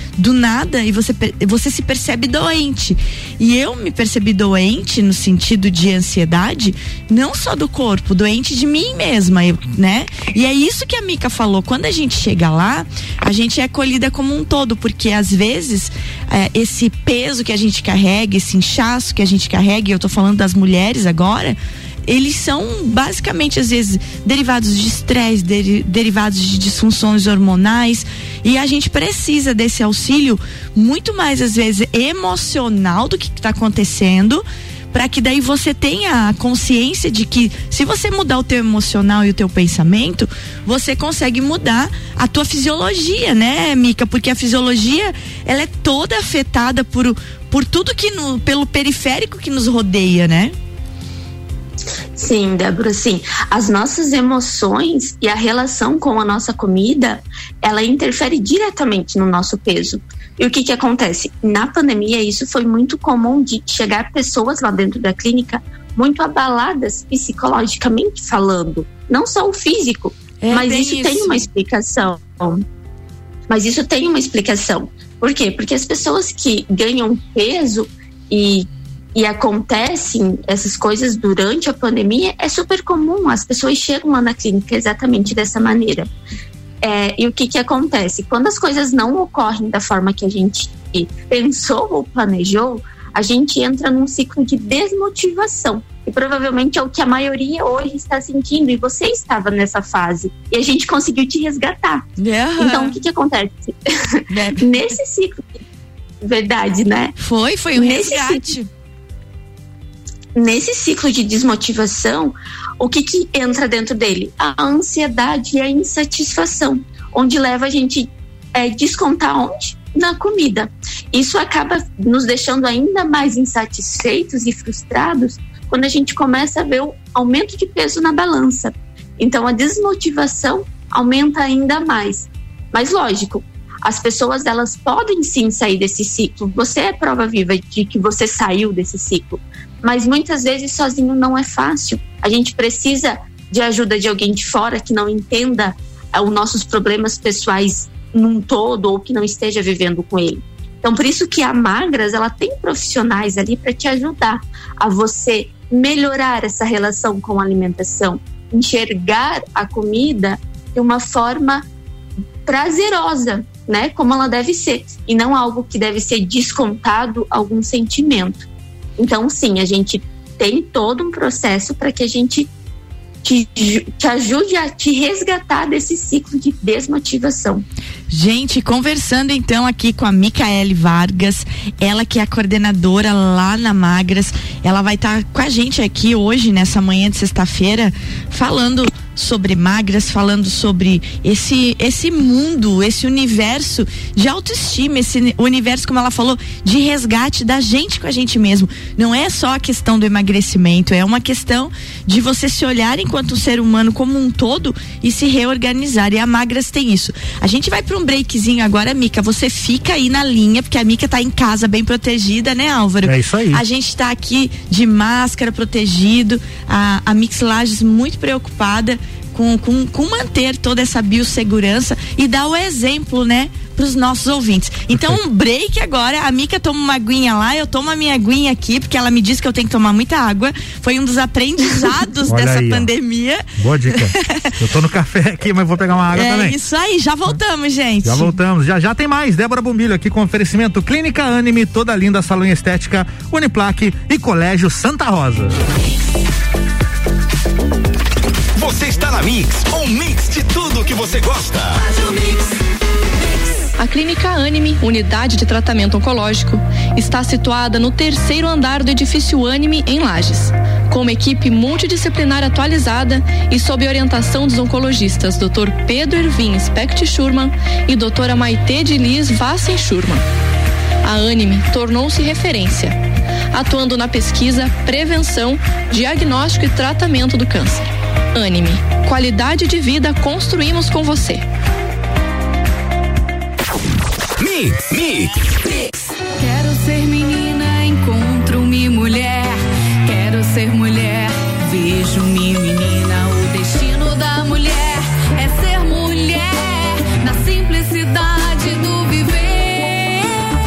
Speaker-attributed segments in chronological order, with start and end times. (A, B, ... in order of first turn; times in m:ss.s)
0:00.2-0:50.5 A
0:52.2-1:12.6 B
1:10.4-1:11.4 A
1:13.5-1:26.1 B
1:26.8-1:42.0 B
1:42.2-1:43.0 A
1:42.6-1:43.9 B
1:44.3-1:44.7 A
1:44.6-1:45.6 B
1:46.2-1:47.2 B
1:47.2-1:48.7 A
1:47.7-1:48.5 B
1:50.3-2:41.6 B
2:42.4-2:48.4 B
2:49.0-2:52.5 B
2:53.2-2:57.6 B
2:58.1-3:54.5 A
3:33.0-3:33.6 C
3:44.9-3:45.2 C
3:52.2-3:52.9 C
3:53.6-3:56.6 C
3:56.1-3:58.4 A
3:58.0-4:05.6 C
4:08.5-4:11.9 D
4:13.8-4:30.2 E
4:31.0-4:33.0 E
4:33.5-4:41.4 E
4:44.4-4:45.3 D
4:45.6-5:00.4 F